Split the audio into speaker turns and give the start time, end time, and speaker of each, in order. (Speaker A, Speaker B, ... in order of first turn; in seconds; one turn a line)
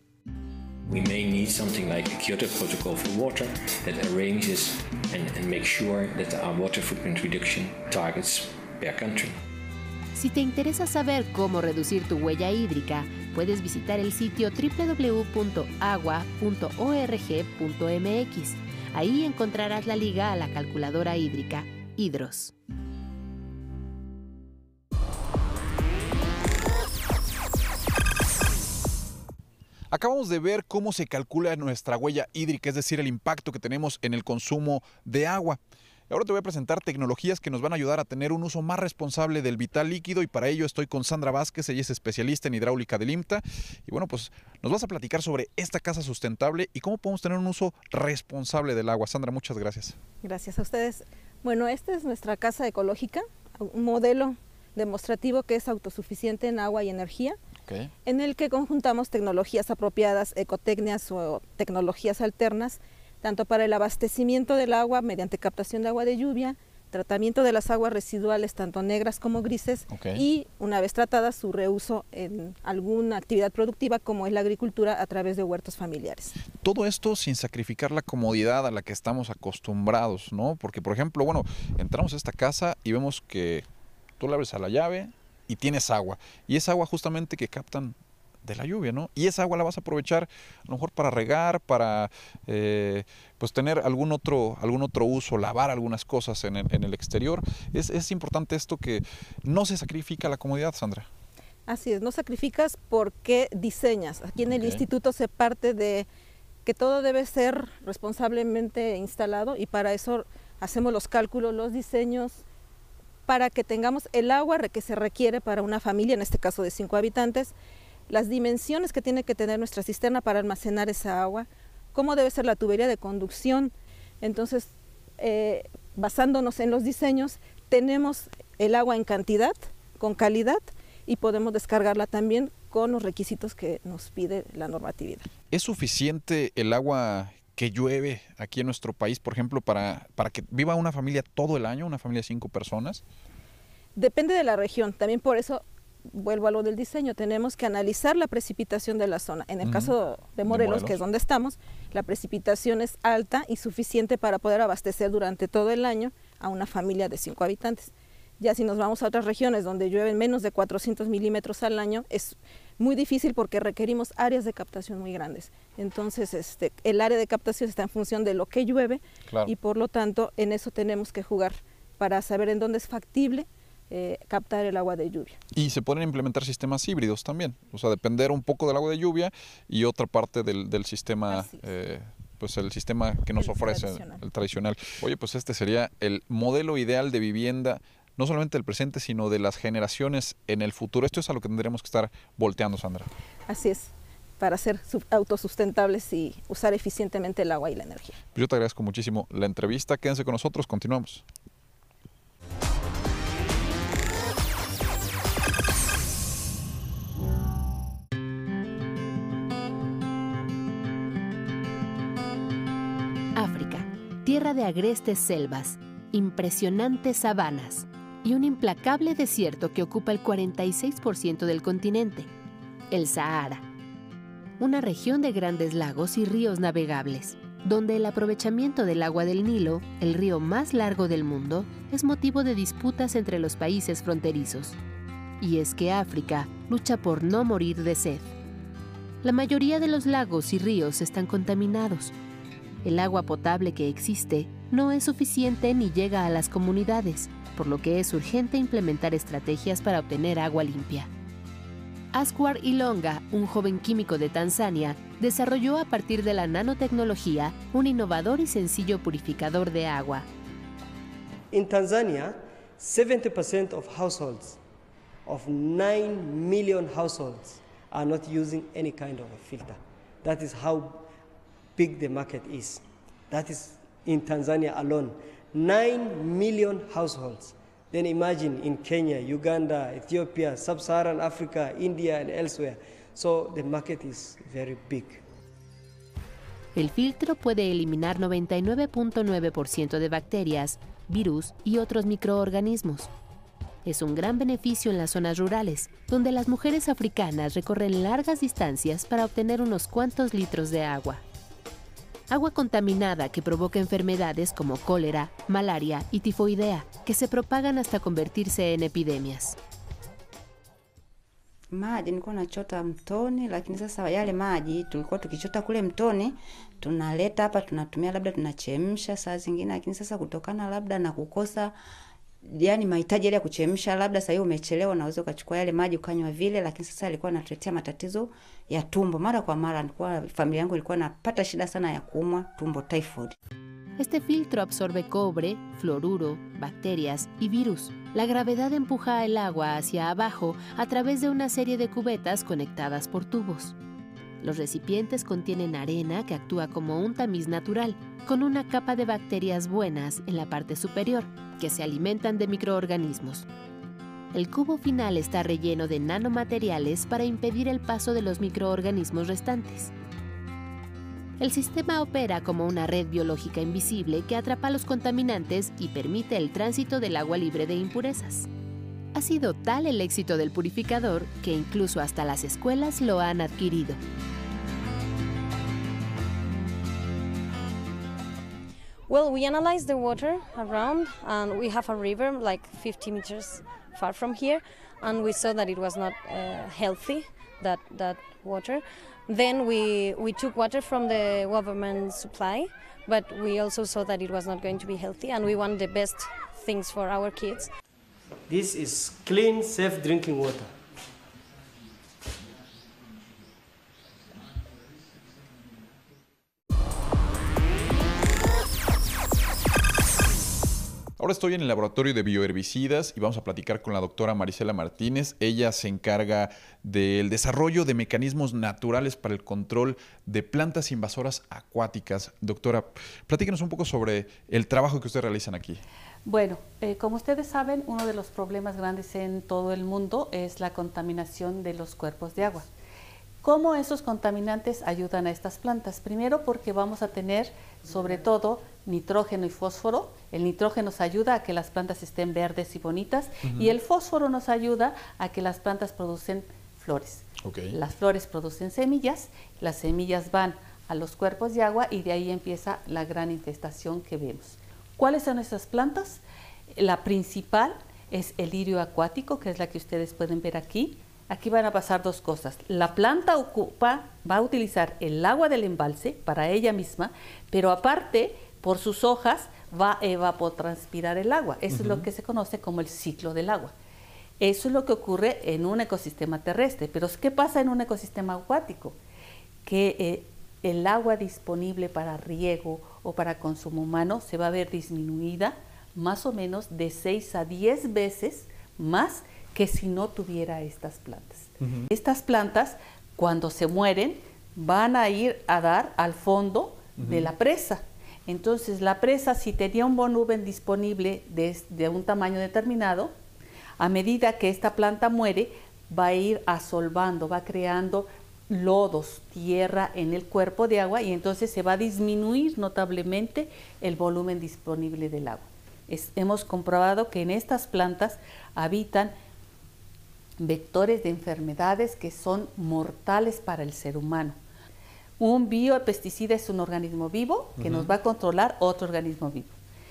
Speaker A: 0.8-9.4
Speaker B: 10.1-22.5
Speaker C: 29.9-50.0
Speaker D: 50.2-57.4
Speaker D: 58.0-76.3
Speaker C: 69.9-70.2
Speaker C: 76.6-83.7
Speaker C: 84.2-101.1
Speaker D: 101.7-106.1
Speaker C: 104.5-104.8
Speaker D: 106.6-112.4
Speaker D: 113.3-117.5
Speaker D: 118.1-135.3
Speaker C: 135.5-143.0
Speaker D: 143.9-175.4
Speaker C: 149.6-149.9
Speaker C: 150.5-151.0
Speaker C: 175.5-193.1
Speaker D: 181.3-181.7
Speaker D: 183.3-184.2
Speaker D: 193.5-198.2
Speaker C: 198.3-201.2
Speaker B: 213.3-222.3
Speaker B: 222.9-223.6
Speaker B: 224.6-234.8
Speaker B: 235.4-238.3
Speaker B: 239.2-242.1
Speaker B: 242.8-251.1
Speaker B: 252.1-260.3
Speaker E: 261.5-264.6
Speaker E: 265.2-271.1
Speaker E: 271.8-285.2
Speaker B: 286.7-293.1
Speaker B: 293.8-301.2
Speaker B: 302.3-309.6
Speaker F: 311.7-321.8
Speaker F: 322.4-333.4
Speaker B: 334.0-343.8
Speaker B: 344.4-353.5
Speaker B: 354.3-359.9
Speaker B: 361.4-368.5
Speaker B: 369.1-374.0
Speaker G: 379.1-397.7
Speaker E: 398.5-400.7
Speaker C: 411.2-425.8
Speaker H: 426.2-432.7
Speaker H: 433.4-456.2
Speaker C: 443.4-443.7
Speaker C: 447.4-447.8
Speaker H: 456.7-473.7
Speaker C: 471.7-472.1
Speaker H: 474.4-479.0
Speaker H: 479.6-503.1
Speaker C: 491.6-491.9
Speaker C: 497.0-497.3
Speaker H: 503.8-519.1
Speaker H: 520.4-524.4
Speaker H: 525.2-529.5
Speaker C: 527.6-527.9